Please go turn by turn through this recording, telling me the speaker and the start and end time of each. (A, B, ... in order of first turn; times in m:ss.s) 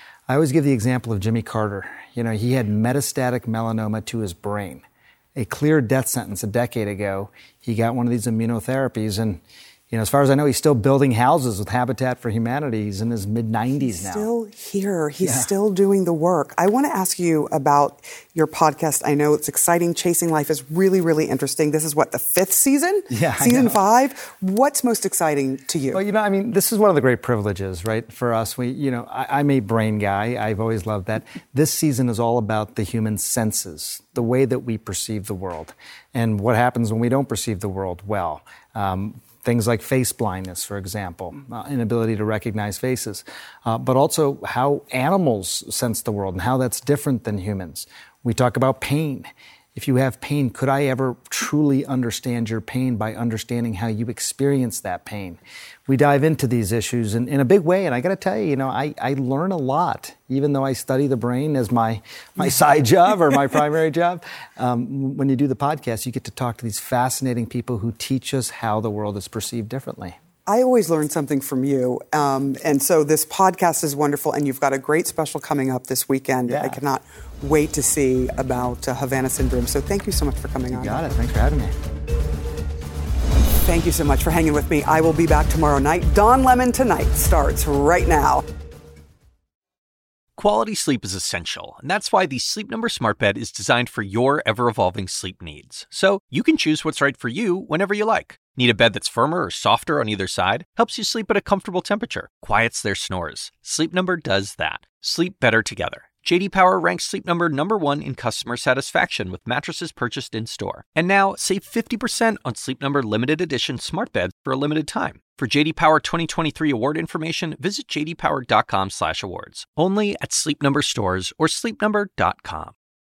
0:00.3-0:04.8 A
0:05.4-0:09.4 A
0:09.9-0:14.3 A
0:13.8-0:26.0 B
0:15.2-0:15.5 A
0:23.1-0:23.8 A
0:25.9-1:10.2 A
1:10.5-1:21.1 B
1:16.5-1:16.8 A
1:20.7-1:21.7 A
1:23.6-1:28.4 B
1:30.4-2:02.7 C